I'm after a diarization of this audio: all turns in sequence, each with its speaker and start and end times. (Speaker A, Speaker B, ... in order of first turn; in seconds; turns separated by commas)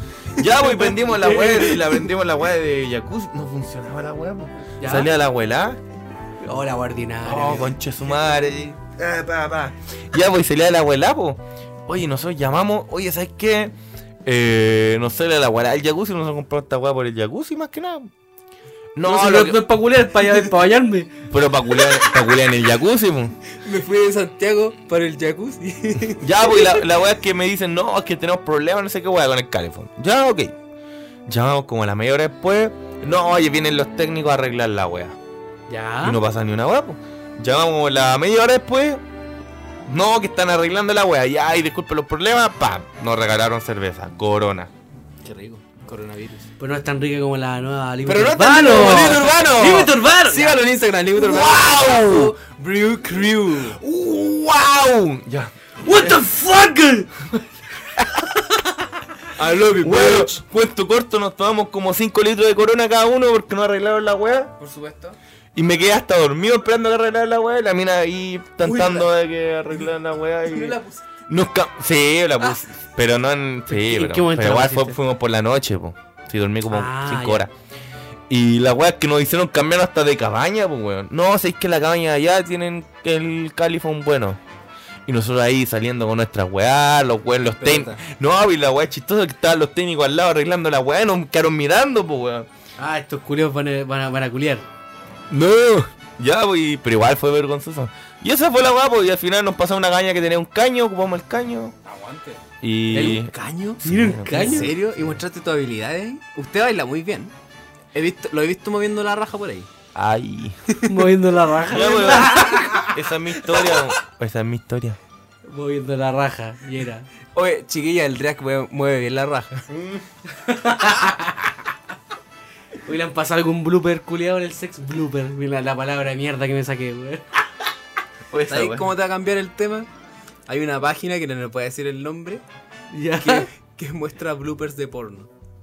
Speaker A: 0.3-5.8, Speaker B: 0.7-2.0, Speaker C: 4.8-5.1, Speaker C: 6.4-7.8, Speaker A: 7.2-13.7, Speaker A: 14.2-18.1, Speaker A: 18.9-19.6, Speaker C: 19.0-21.1, Speaker A: 21.3-23.4, Speaker B: 23.6-26.8, Speaker A: 26.2-30.5, Speaker A: 31.3-35.2, Speaker C: 35.7-36.2, Speaker A: 36.0-39.0, Speaker A: 39.9-44.7, Speaker B: 45.2-46.5, Speaker C: 46.6-50.6, Speaker B: 48.0-53.8, Speaker A: 48.6-49.2, Speaker A: 51.1-52.4, Speaker A: 53.7-56.2, Speaker C: 55.8-57.2, Speaker B: 59.4-60.4, Speaker A: 59.4-64.5, Speaker B: 64.6-65.2, Speaker A: 65.6-70.8, Speaker B: 68.6-69.1, Speaker B: 70.5-71.1, Speaker A: 71.3-77.5, Speaker C: 73.7-75.0, Speaker C: 76.7-77.5, Speaker A: 78.3-84.4, Speaker A: 85.1-92.5, Speaker B: 87.5-88.0, Speaker C: 92.8-94.7, Speaker B: 95.3-95.9, Speaker A: 96.2-101.7, Speaker B: 101.8-102.4, Speaker A: 102.6-105.2, Speaker C: 102.9-103.2, Speaker B: 103.0-107.3, Speaker C: 103.8-104.7, Speaker B: 107.9-109.7, Speaker A: 110.0-110.6, Speaker B: 110.7-111.1, Speaker C: 110.9-112.9, Speaker A: 111.7-115.0, Speaker B: 111.7-112.8, Speaker B: 113.6-113.9, Speaker C: 115.5-117.1, Speaker B: 117.3-119.6, Speaker A: 119.7-120.0, Speaker C: 120.4-121.6, Speaker C: 122.8-127.3, Speaker A: 128.3-128.9, Speaker B: 128.4-129.9, Speaker B: 130.5-132.4, Speaker C: 132.9-133.5, Speaker B: 133.2-135.3